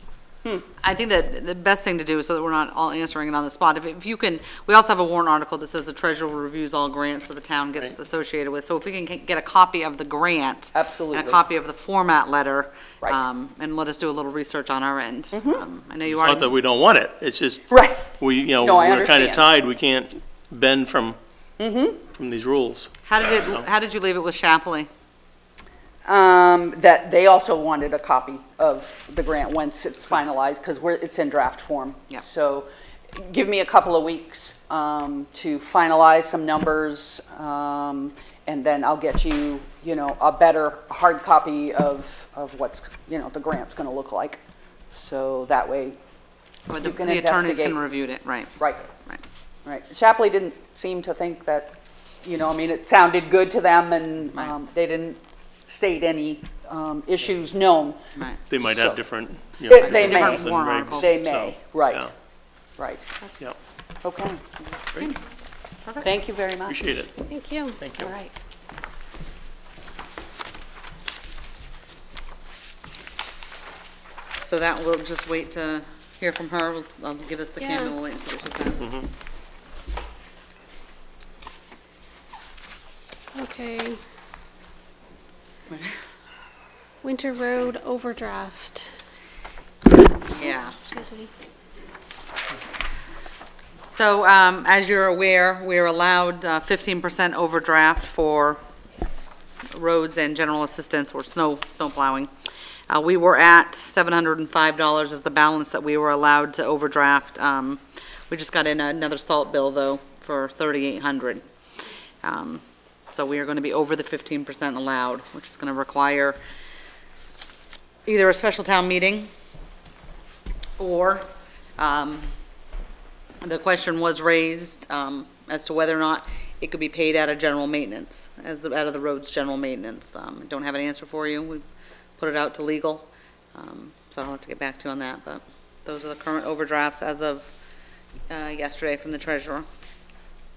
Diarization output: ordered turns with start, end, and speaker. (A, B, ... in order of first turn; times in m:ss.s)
0:00.8-0:16.5 A
0:10.7-0:11.4 B
0:15.3-0:15.6 B
0:16.1-0:21.2 C
0:17.7-0:19.5 B
0:21.6-0:22.0 B
0:22.1-0:22.9 C
0:23.1-0:24.9 A
0:26.1-0:46.0 B
0:46.7-0:49.2 A
0:46.8-0:47.8 B
0:48.6-0:48.9 B
0:49.6-0:58.0 B
0:58.2-0:58.4 A
0:58.5-1:02.1 C
0:58.6-0:59.0 B
0:59.7-1:02.1 B
0:59.8-1:01.2 A
1:02.8-1:03.1 B
1:04.0-1:04.4 B
1:04.6-1:05.2 A
1:06.0-1:06.8 B
1:06.7-1:07.1 C
1:07.3-1:07.8 D
1:07.8-1:08.1 C
1:08.0-1:08.4 B
1:14.4-1:18.9 A
1:17.6-1:18.0 D
1:18.8-1:19.1 C
1:23.3-1:24.0 D
1:27.0-1:28.9 D
1:30.2-1:31.3 D
1:30.4-1:30.8 A
1:33.9-1:38.6 A
1:39.7-1:42.3 A
1:42.9-1:51.4 A
1:52.2-1:56.4 A
1:58.1-1:59.3 A
2:00.8-2:02.3 A
2:03.4-2:11.6 A
2:12.2-2:17.5 A
2:18.3-2:19.7 A